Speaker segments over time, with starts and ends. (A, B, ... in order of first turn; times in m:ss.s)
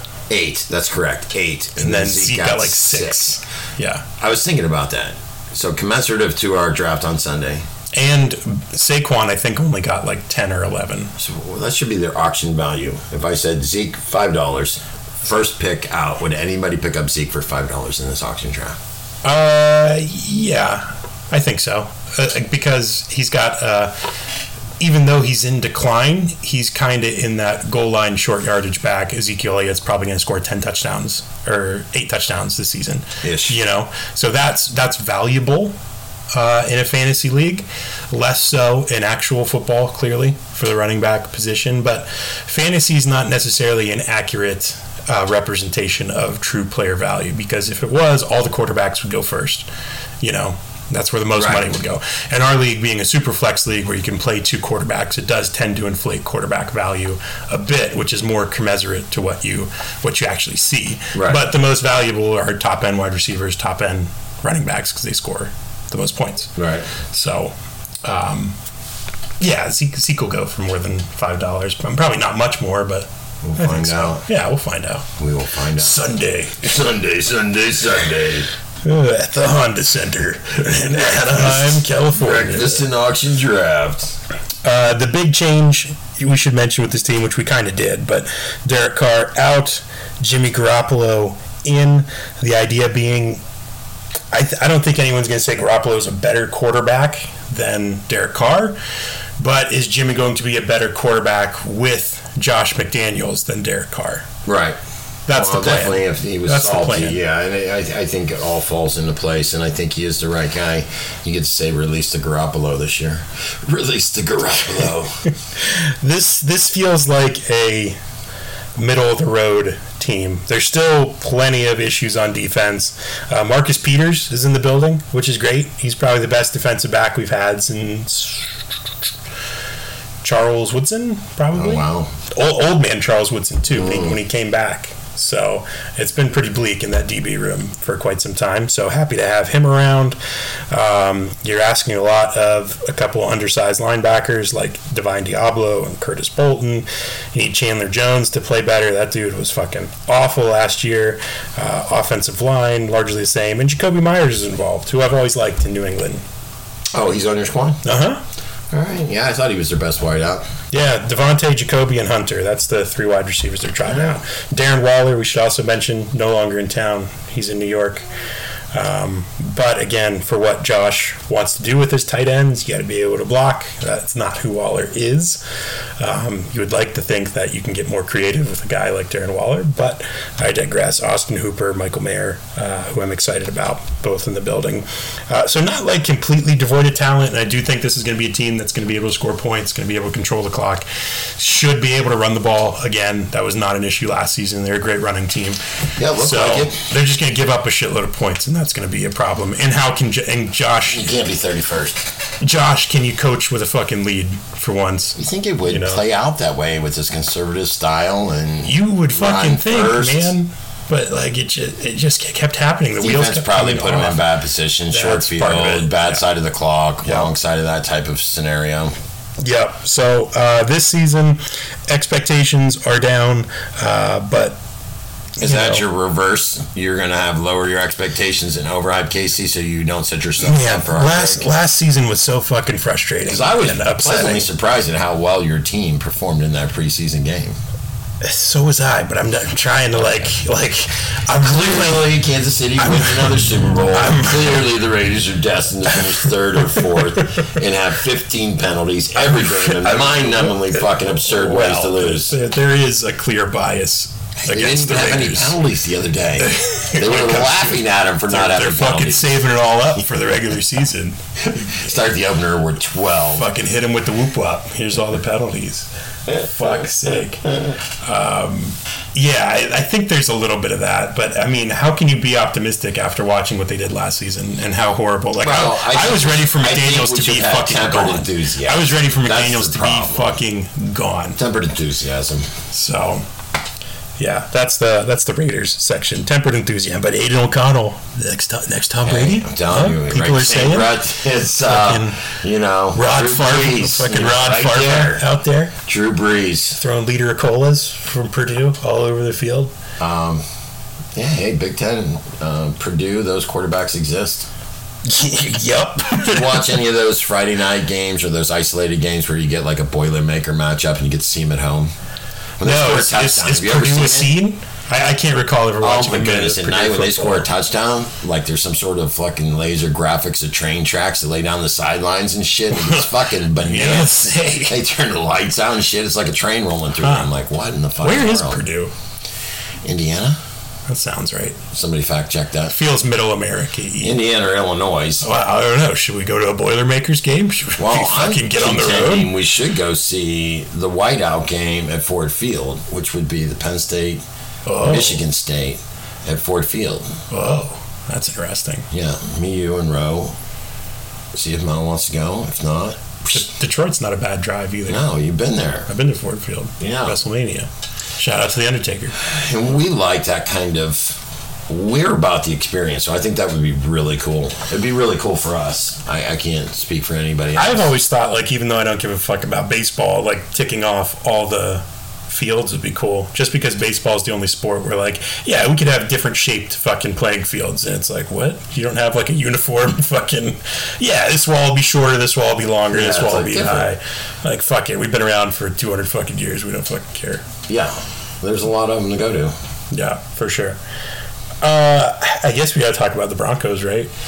0:00.3-0:03.4 A
0:01.8-0:04.1 B
0:04.2-0:07.6 A
0:07.9-0:11.1 B
0:11.2-0:18.8 A
0:19.2-0:23.9 B
0:24.8-0:35.7 B
0:33.2-0:33.6 A
0:36.3-0:49.6 B
0:50.2-1:07.5 B
0:51.4-0:51.7 A
1:01.1-1:01.4 A
1:06.6-1:06.9 A
1:08.0-1:08.6 B
1:09.4-1:15.1 B
1:13.4-1:14.2 A
1:15.2-1:16.0 A
1:15.7-1:16.6 B
1:16.6-1:18.5 A
1:18.8-1:22.8 B
1:20.9-1:24.2 A
1:24.6-1:33.4 B
1:34.3-1:38.8 B
1:39.4-1:44.3 B
1:44.4-1:44.8 A
1:45.3-1:47.2 B
1:45.3-1:55.2 A
1:55.6-1:58.0 B
1:58.8-2:08.6 B
2:10.2-2:20.2 B
2:11.5-2:12.1 A
2:13.7-2:14.2 A
2:20.7-2:36.2 B
2:36.9-2:37.8 A
2:37.8-2:38.2 B
2:38.7-2:40.4 A
2:40.7-2:48.0 B
2:48.7-2:55.4 B
2:56.0-3:10.9 B
3:11.4-3:21.1 B
3:16.0-3:16.8 A
3:20.9-3:22.1 A
3:22.4-3:26.0 B
3:25.2-3:30.3 A
3:28.6-3:34.2 B
3:33.0-3:38.9 A
3:34.9-3:36.2 B
3:37.0-3:37.3 B
3:39.4-3:44.6 B
3:45.4-3:51.5 A
3:45.4-3:45.8 B
3:50.4-3:54.5 B
3:53.2-3:57.6 A
3:58.2-4:02.1 B
4:01.4-4:12.4 A
4:02.8-4:04.6 B
4:06.0-4:07.5 B
4:09.2-4:15.6 B
4:14.4-4:19.4 A
4:16.4-4:21.7 B
4:21.4-4:23.5 A
4:23.3-4:41.4 B
4:35.4-4:40.4 A
4:41.4-4:42.5 A
4:42.7-4:43.2 B
4:44.2-4:51.0 B
4:49.0-4:55.3 A
4:51.6-4:52.2 B
4:52.9-4:55.7 B
4:55.8-4:56.8 A
4:56.8-4:59.7 B
5:00.0-5:00.4 A
5:01.1-5:04.5 A
5:05.1-5:06.8 B
5:06.1-5:11.9 A
5:12.6-5:14.4 A
5:12.6-5:17.5 B
5:15.8-5:28.6 A
5:22.7-5:24.8 B
5:27.0-5:27.3 B
5:28.0-5:28.9 B
5:29.8-5:30.4 A
5:30.9-5:31.6 B
5:31.7-5:32.7 A
5:32.7-5:34.2 B
5:34.0-5:35.3 A
5:35.2-5:39.3 B
5:37.8-5:44.2 A
5:44.7-5:45.2 B
5:44.8-5:47.2 A
5:47.3-5:48.9 B
5:48.9-5:50.3 A
5:51.3-5:53.5 A
5:53.3-5:55.0 B
5:54.9-5:55.9 A
5:55.9-5:59.2 B
5:56.8-5:57.2 A
5:59.2-6:07.9 A
6:07.6-6:27.4 B
6:22.9-6:23.9 A
6:27.7-6:29.5 A
6:29.9-6:30.8 B
6:31.6-6:34.1 B